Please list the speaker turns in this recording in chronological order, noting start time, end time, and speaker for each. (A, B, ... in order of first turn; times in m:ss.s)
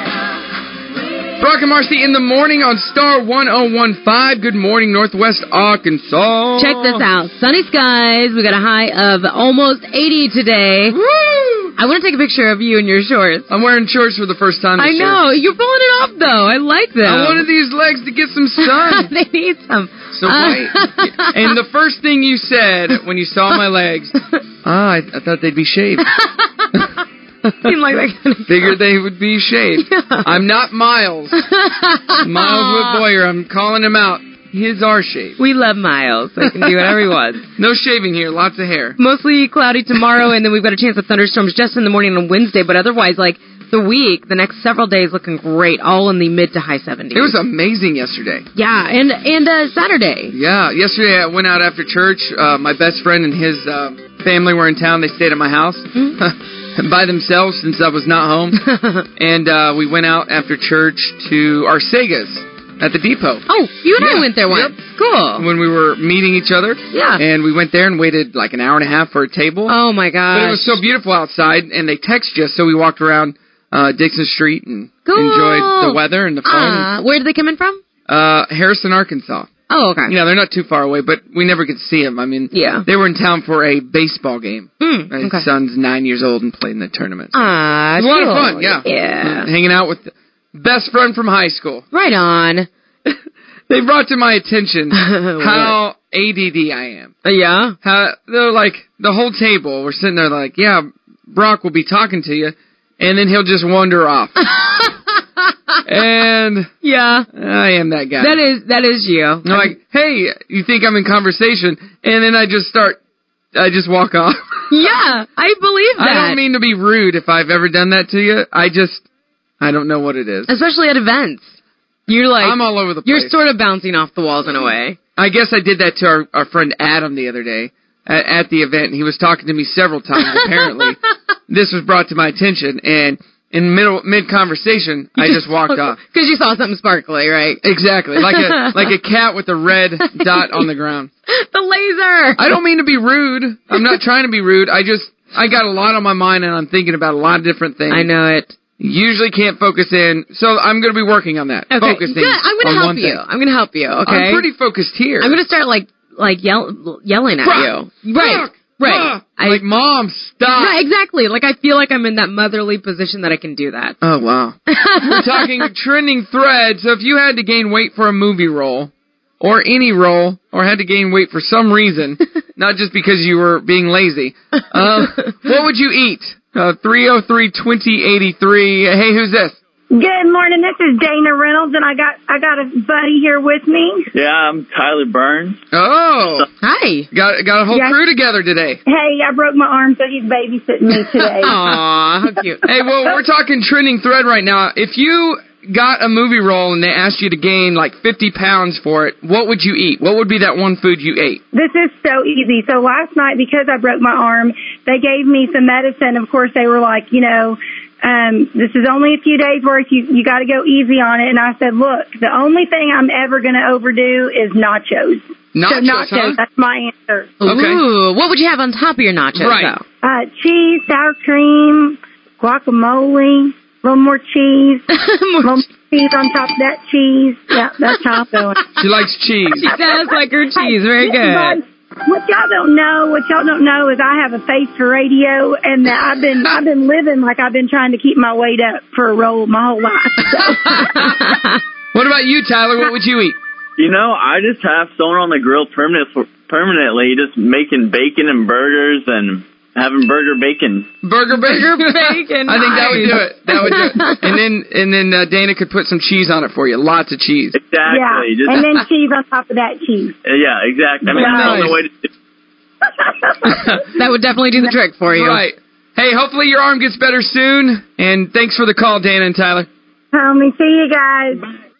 0:01.4-0:07.0 A
0:06.6-0:11.0 B
0:10.9-0:11.8 A
0:11.8-0:13.5 B
0:13.5-0:15.2 A
0:14.8-0:17.5 B
0:17.0-0:19.1 A
0:18.6-0:21.6 B
0:20.1-0:26.1 A
0:26.0-0:26.9 B
0:27.6-0:28.8 B
0:28.5-0:31.4 A
0:29.8-0:30.4 B
0:31.3-0:33.0 B
0:32.2-0:35.4 A
0:35.4-0:37.4 B
0:37.6-0:39.0 A
0:39.0-0:47.4 B
0:47.1-0:48.4 A
0:48.5-0:50.3 B
0:50.3-0:58.6 A
0:58.6-0:59.0 B
0:59.2-1:03.4 A
1:03.5-1:05.5 B
1:04.0-1:04.7 A
1:05.4-1:09.7 A
1:06.9-1:07.2 B
1:09.7-1:10.8 B
1:10.3-1:16.9 A
1:15.0-1:17.8 B
1:18.1-1:19.5 A
1:19.7-1:20.1 B
1:20.0-1:27.4 A
1:22.5-1:22.8 B
1:24.8-1:25.5 B
1:27.3-1:29.5 B
1:28.0-1:31.8 A
1:31.9-1:32.7 B
1:33.7-1:37.1 A
1:34.9-1:35.8 B
1:37.2-1:37.8 B
1:37.8-1:44.4 A
1:44.5-1:45.0 B
1:45.8-1:46.7 A
1:46.8-1:47.3 B
1:47.3-1:48.4 A
1:48.2-1:49.7 B
1:49.4-1:53.0 A
1:53.5-1:54.6 A
1:54.7-1:56.4 B
1:56.0-1:59.0 A
1:59.6-2:00.5 A
2:00.5-2:01.5 B
2:02.1-2:05.0 B
2:02.4-2:03.4 A
2:05.2-2:16.0 A
2:10.2-2:10.9 B
2:15.2-2:18.9 B
2:17.6-2:21.1 A
2:20.2-2:20.6 B
2:21.3-2:22.6 B
2:22.4-2:28.1 A
2:27.9-2:28.6 B
2:28.8-2:33.2 A
2:31.7-2:34.4 B
2:34.0-2:35.4 A
2:35.2-2:39.6 B
2:37.4-2:40.8 A
2:40.5-2:44.0 B
2:44.0-2:59.6 A
2:44.7-2:45.7 B
2:54.8-2:55.3 B
2:59.9-3:04.1 C
3:04.1-3:05.6 D
3:05.7-3:06.4 A
3:06.6-3:07.1 B
3:07.1-3:08.8 A
3:07.7-3:08.0 C
3:08.9-3:11.6 C
3:11.4-3:12.6 B
3:12.6-3:21.4 A
3:21.5-3:37.4 C
3:35.5-3:36.4 A
3:37.4-3:39.8 B
3:37.4-3:37.8 A
3:39.3-3:39.7 A
3:40.0-3:44.8 C
3:44.9-3:45.6 B
3:45.4-3:48.6 C
3:48.8-3:49.7 A
3:49.6-3:51.6 B
3:49.7-4:00.9 C
4:00.2-4:01.2 A
4:00.8-4:01.6 B
4:01.9-4:03.4 A
4:03.8-4:10.9 D
4:11.0-4:17.6 A
4:11.3-4:14.4 B
4:17.5-4:18.8 D
4:17.9-4:20.2 C
4:20.2-4:22.1 D
4:21.1-4:21.7 C
4:21.1-4:21.8 A
4:23.4-4:23.9 A
4:23.9-4:25.4 B
4:25.1-4:29.7 A
4:30.1-4:31.5 C